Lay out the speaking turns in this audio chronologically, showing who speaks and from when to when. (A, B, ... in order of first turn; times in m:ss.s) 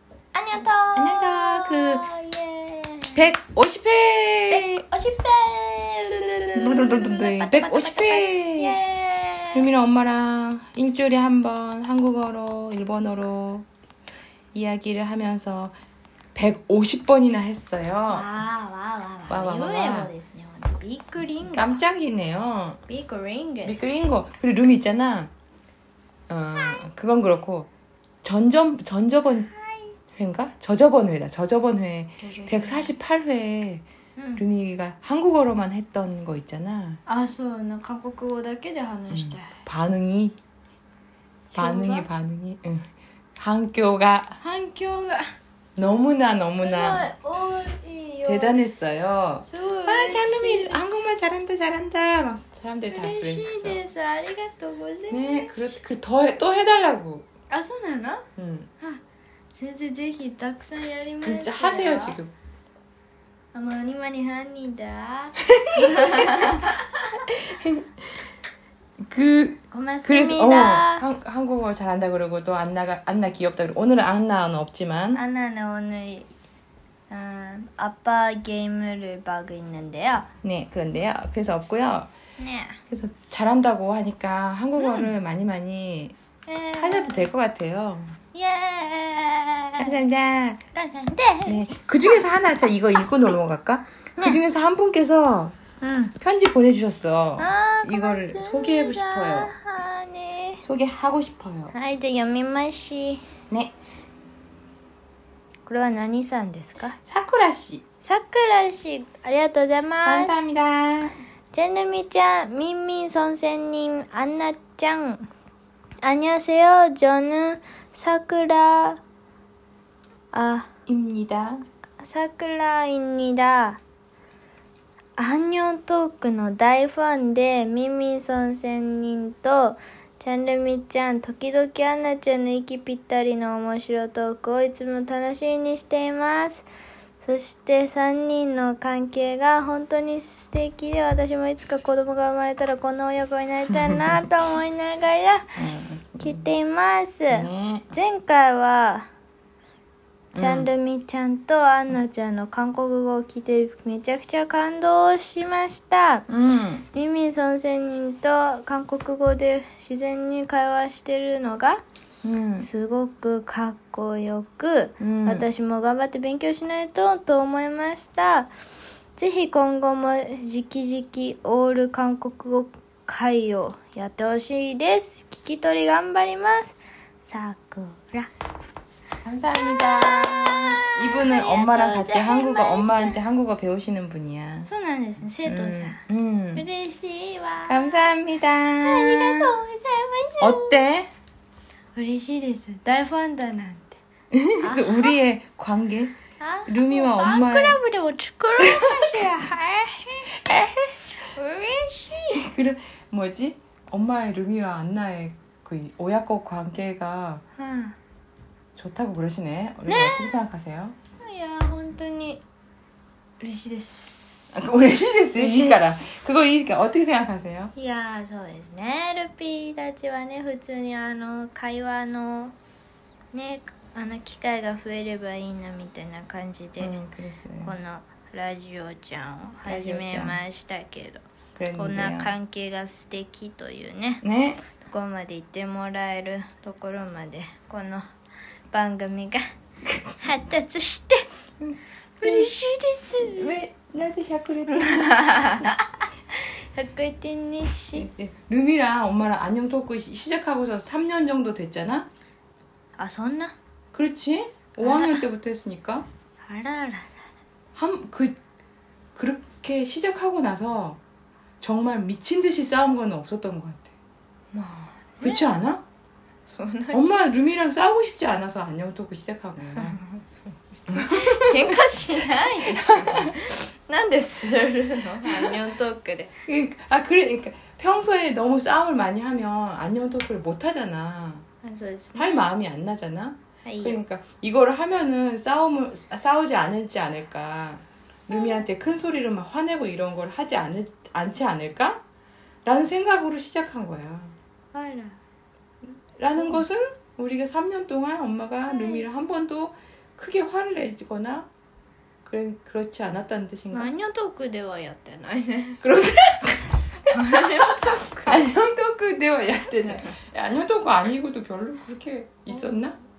0:00.3-0:03.3 A
0:01.0-0:02.1 B
0:03.1-0:04.8 B
0:04.5-0:09.6 A
0:06.6-0:08.8 B
0:09.5-0:13.6 B
0:14.5-0:15.7 B
0:16.3-0:18.3 B
0:18.1-0:21.7 A
0:19.3-0:20.1 B
0:21.4-0:22.8 B
0:22.9-0:23.8 A
0:23.6-0:25.3 B
0:26.3-0:27.7 B
0:26.5-0:26.8 A
0:28.2-0:29.5 B
0:29.2-0:29.9 A
0:30.2-0:33.8 B
0:32.2-0:32.9 A
0:34.2-0:34.4 A
0:34.4-0:37.0 B
0:37.1-0:39.5 A
0:39.1-0:40.4 B
0:41.5-0:42.1 A
0:41.5-0:44.4 B
0:44.4-0:45.3 A
0:45.8-0:47.1 B
0:46.6-0:48.6 A
0:48.2-0:53.8 B
0:49.5-0:51.0 A
0:52.9-0:55.7 A
0:55.1-0:57.2 B
0:57.5-0:58.2 A
0:58.4-0:58.7 B
0:59.5-1:02.2 A
1:01.2-1:02.3 B
1:03.5-1:07.2 A
1:05.5-1:06.6 B
1:07.4-1:07.9 B
1:09.0-1:15.2 B
1:09.7-1:11.0 A
1:15.1-1:16.3 A
1:17.1-1:20.3 A
1:20.4-1:22.1 B
1:22.4-1:22.8 A
1:22.9-1:26.2 B
1:24.8-1:25.1 A
1:26.5-1:27.3 A
1:26.8-1:28.2 B
1:28.3-1:29.9 A
1:29.8-1:30.6 B
1:30.7-1:31.7 A
1:31.4-1:35.5 B
1:35.8-1:36.1 A
1:36.2-1:39.5 B
1:37.4-1:40.6 A
1:40.6-1:41.7 B
1:41.7-1:43.2 A
1:45.6-1:47.0 A
1:47.0-1:47.8 B
1:48.0-1:50.4 A
1:50.0-1:51.2 B
1:51.5-1:55.3 A
1:56.0-1:59.0 A
2:00.3-2:00.7 A
2:00.9-2:01.6 B
2:02.0-2:03.8 A
2:05.2-2:16.6 A
2:17.2-2:25.6 A
2:25.6-2:26.4 B
2:26.2-2:29.1 A
2:27.3-2:27.9 B
2:30.3-2:30.7 B
2:30.3-2:36.2 A
2:36.3-2:36.8 B
2:36.9-2:41.8 A
2:42.2-2:42.7 B
2:42.6-2:48.5 A
2:45.0-2:45.5 B
2:49.2-2:58.3 A
2:59.2-3:04.7 B
2:59.5-3:03.2 A
3:04.6-3:06.0 A
3:05.4-3:06.6 B
3:06.5-3:08.2 A
3:07.7-3:09.6 B
3:08.8-3:10.8 A
3:10.4-3:11.1 B
3:12.0-3:14.0 A
3:14.3-3:16.2 B
3:14.6-3:15.2 A
3:16.4-3:20.3 A
3:16.7-3:17.8 B
3:18.6-3:19.3 B
3:20.4-3:21.0 B
3:21.1-3:22.4 A
3:22.3-3:27.4 B
3:27.6-3:27.9 A
3:28.8-3:30.9 B
3:29.8-3:30.4 A
3:31.2-3:32.4 A
3:33.4-3:34.5 A
3:34.5-3:37.7 B
3:35.3-3:36.0 A
3:37.7-3:42.5 A
3:43.3-3:46.9 A
3:46.8-3:47.8 B
3:47.6-3:51.2 A
3:49.6-3:50.4 B
3:51.6-3:52.3 B
3:51.7-3:54.2 A
3:54.2-3:54.6 B
3:54.8-3:58.1 A
3:58.7-3:59.4 A
4:00.2-4:01.3 A
4:01.6-4:02.6 B
4:02.2-4:03.5 A
4:03.2-4:05.1 B
4:04.7-4:08.1 A
4:07.9-4:12.1 B
4:13.0-4:13.5 A
4:13.9-4:16.1 B
4:14.8-4:15.2 A
4:16.4-4:17.1 A
4:17.7-4:18.4 B
4:19.1-4:21.0 B
4:21.6-4:23.9 B
4:24.5-4:25.4 A
4:25.2-4:25.8 B
4:26.5-4:27.0 A
4:26.9-4:30.0 B
4:29.8-4:36.3 A
4:30.9-4:33.4 B
4:36.5-4:41.4 B
4:41.6-4:42.4 A
4:42.2-4:52.0 B
4:43.6-4:44.0 A
4:48.3-4:48.6 A
4:52.6-4:54.3 B
4:54.7-4:55.2 A
4:56.2-5:01.5 B
4:58.7-4:59.0 A
5:02.2-5:03.9 B
5:03.7-5:05.8 A
5:05.8-5:07.4 B
5:07.1-5:08.5 A
5:08.2-5:13.0 B